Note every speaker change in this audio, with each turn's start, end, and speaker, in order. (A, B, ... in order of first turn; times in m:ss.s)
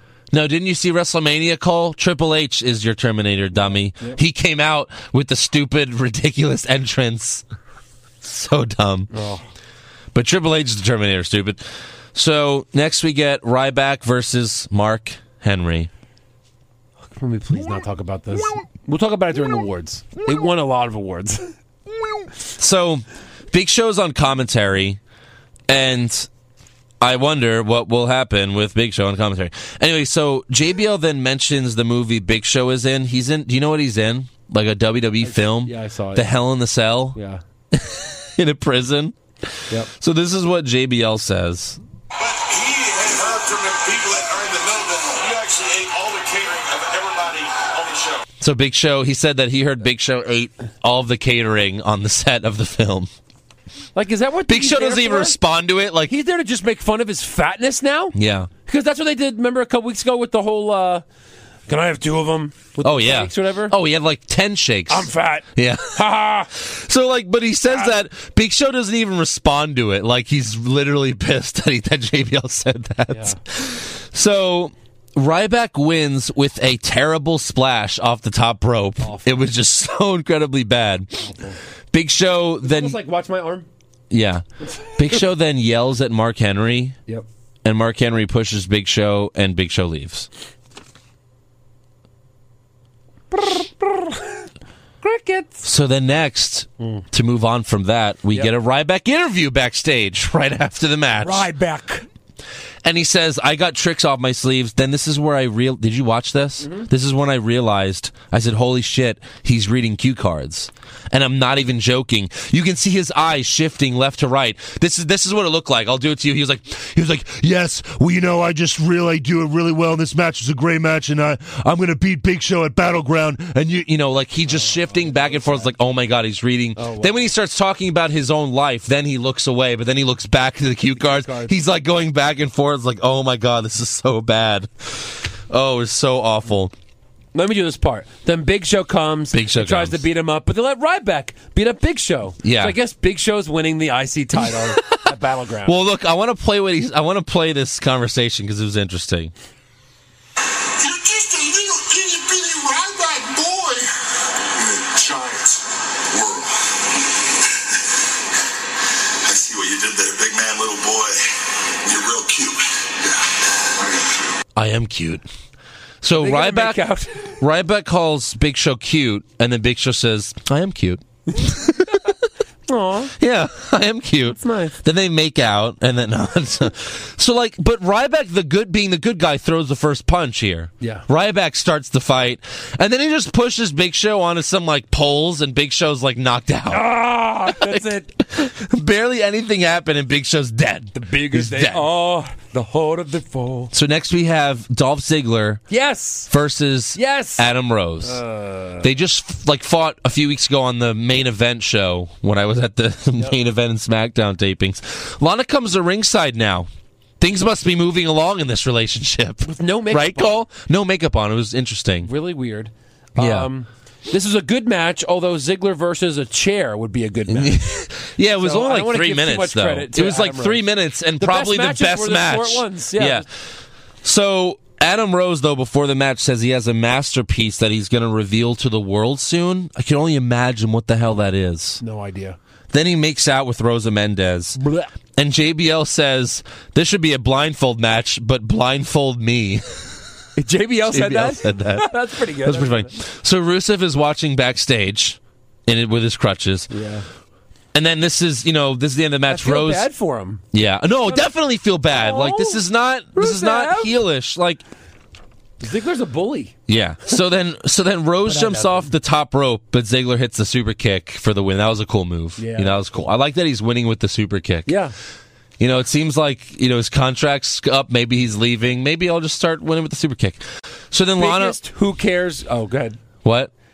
0:00.3-0:07.4 A
0:03.7-0:04.2 B
0:08.2-0:09.1 A
0:09.1-0:09.4 B
0:10.1-0:11.6 A
0:12.1-0:15.9 A
0:17.1-0:21.5 B
0:22.6-0:25.0 A
0:25.7-0:26.3 A
0:27.0-0:37.2 A
0:35.2-0:36.3 B
0:37.1-0:37.4 B
0:37.7-0:41.8 A
0:42.2-0:48.2 C
0:48.4-0:53.1 A
0:53.9-0:55.4 B
0:54.5-0:56.1 A
0:56.1-0:58.1 B
0:58.1-0:58.5 A
0:58.6-1:01.0 B
1:01.7-1:03.7 B
1:02.8-1:21.2 A
1:04.9-1:06.5 B
1:07.7-1:07.9 B
1:13.1-1:13.4 B
1:19.0-1:19.3 B
1:21.2-1:21.6 B
1:21.9-1:23.0 A
1:22.6-1:23.7 B
1:24.1-1:27.0 A
1:24.6-1:25.2 B
1:27.6-1:30.3 A
1:33.3-1:34.5 B
1:35.0-1:35.6 B
1:35.6-1:41.5 A
1:36.8-1:37.0 B
1:41.2-1:42.1 B
1:42.8-2:16.7 A
2:04.4-2:05.7 B
2:06.8-2:07.3 B
2:11.0-2:11.6 B
2:17.3-2:25.8 B
2:19.3-2:20.0 A
2:22.4-2:22.8 A
2:24.4-2:25.1 A
2:25.6-2:29.3 A
2:30.8-2:37.1 C
2:39.2-2:44.2 C
2:44.5-2:45.2 A
2:46.0-2:46.8 A
2:46.2-2:47.4 B
2:47.4-2:52.1 A
2:51.4-2:52.1 B
2:52.7-2:53.1 B
2:53.2-3:06.9 A
2:54.3-2:54.8 B
3:00.8-3:01.1 B
3:06.7-3:08.1 B
3:07.5-3:11.8 A
3:10.9-3:13.7 B
3:13.7-3:15.6 A
3:15.7-3:16.3 B
3:16.3-3:18.2 A
3:16.9-3:17.5 B
3:18.0-3:18.9 B
3:18.8-3:26.7 A
3:27.2-3:32.1 A
3:29.4-3:30.4 B
3:32.0-3:37.6 B
3:33.2-3:33.5 A
3:37.3-3:43.2 A
3:38.4-3:40.6 B
3:41.2-3:43.2 B
3:44.0-3:51.8 A
3:51.8-3:52.4 B
3:52.7-3:54.6 A
3:54.6-3:54.9 B
3:55.2-4:00.0 A
4:00.4-4:03.0 B
4:00.9-4:06.7 A
4:06.7-4:07.0 B
4:07.7-4:09.9 A
4:09.3-4:10.4 B
4:10.5-4:14.6 A
4:11.0-4:11.3 B
4:11.9-4:12.6 B
4:13.1-4:13.9 B
4:15.6-4:16.5 B
4:16.7-4:24.7 A
4:18.2-4:18.9 B
4:22.4-4:22.8 B
4:24.6-4:24.9 B
4:25.6-4:31.6 A
4:31.2-4:33.0 B
4:33.2-4:33.5 A